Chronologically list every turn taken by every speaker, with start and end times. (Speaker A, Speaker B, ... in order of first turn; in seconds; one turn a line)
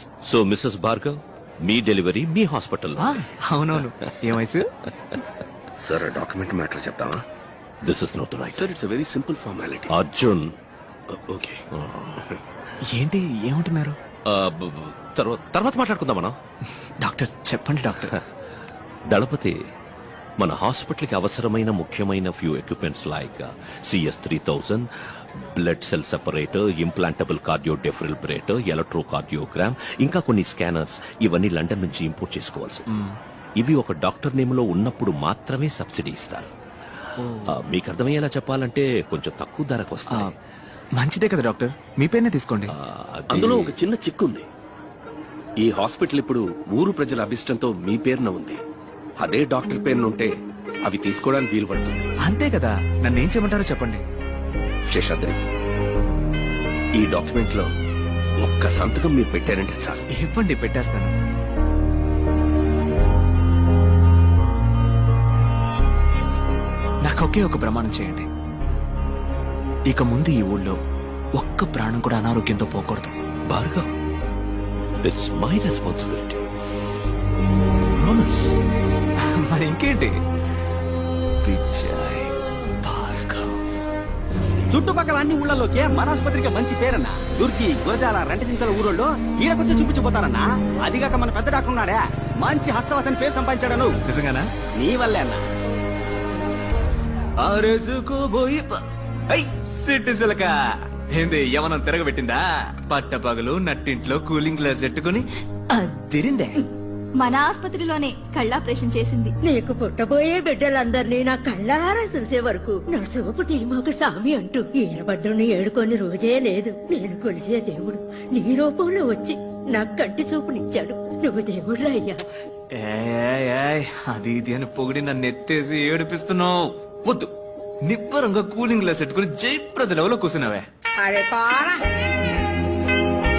Speaker A: 0.2-3.3
Speaker B: 3.0-4.7
Speaker C: 5.8-7.2
Speaker A: 7.8-8.7
Speaker C: 8.5-9.9
Speaker A: 9.9-10.5
Speaker C: 11.1-11.7
Speaker A: 11.8-12.3
Speaker B: 12.9-14.0
Speaker A: 14.3-16.4
Speaker B: 17.0-18.2
Speaker A: 19.1-19.6
Speaker A: 20.4-24.9
Speaker A: 25.4-32.9
Speaker A: 33.6-36.5
Speaker B: 37.2-37.5
Speaker A: 37.5-40.4
Speaker B: 41.0-42.7
Speaker A: 42.7-43.8
Speaker C: 43.3-44.5
Speaker C: 45.6-48.6
Speaker C: 49.2-52.1
Speaker B: 52.2-54.0
Speaker C: 54.9-55.4
Speaker C: 57.0-57.7
Speaker C: 58.4-60.0
Speaker B: 60.1-61.1
Speaker B: 67.0-68.3
Speaker B: 69.9-70.8
Speaker B: 71.4-73.2
Speaker A: 73.5-73.9
Speaker A: 75.0-76.5
Speaker A: 77.9-78.5
Speaker B: 79.4-80.1
Speaker B: 81.4-83.6
Speaker D: 84.7-93.9
Speaker B: 94.0-94.5
Speaker D: 94.8-95.4
Speaker B: 97.4-106.6
Speaker E: 107.2-109.3
Speaker F: 109.4-122.2
Speaker B: 122.8-127.3
Speaker B: 127.8-130.7
Speaker F: 131.0-131.8